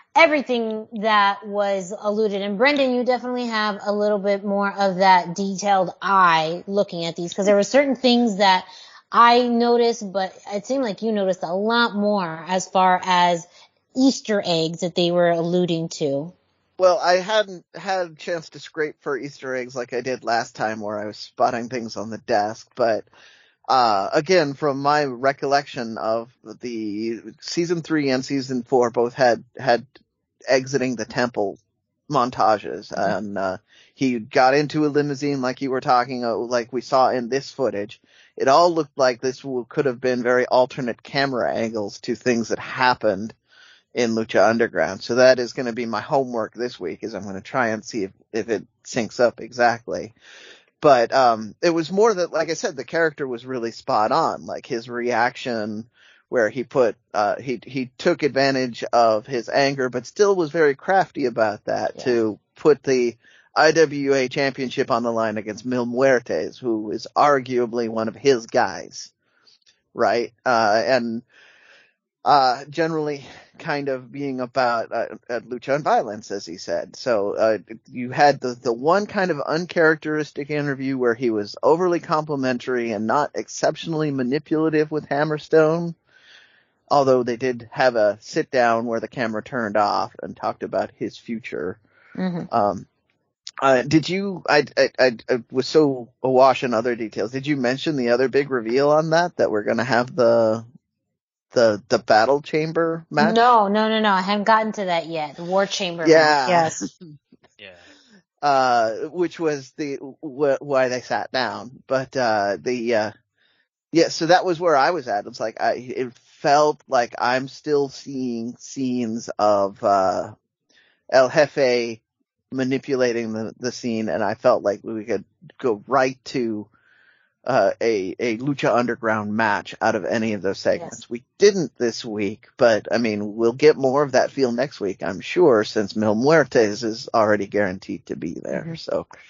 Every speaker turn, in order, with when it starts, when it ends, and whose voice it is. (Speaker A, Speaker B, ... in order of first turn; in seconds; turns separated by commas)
Speaker A: 0.2-16.3, Speaker B: 16.8-23.1, Speaker B: 23.7-29.9, Speaker B: 30.5-43.4, Speaker B: 44.0-50.1, Speaker B: 50.8-69.1, Speaker B: 69.9-71.2, Speaker B: 72.2-86.0, Speaker B: 86.9-91.8, Speaker A: 92.2-92.5, Speaker B: 92.5-92.9, Speaker B: 93.6-100.7, Speaker B: 101.5-103.4, Speaker A: 103.2-106.9, Speaker B: 106.0-107.0, Speaker B: 108.4-113.1, Speaker B: 113.9-120.3, Speaker B: 121.1-122.0, Speaker B: 122.5-126.7, Speaker B: 127.5-139.1, Speaker A: 130.7-131.0, Speaker A: 138.5-138.8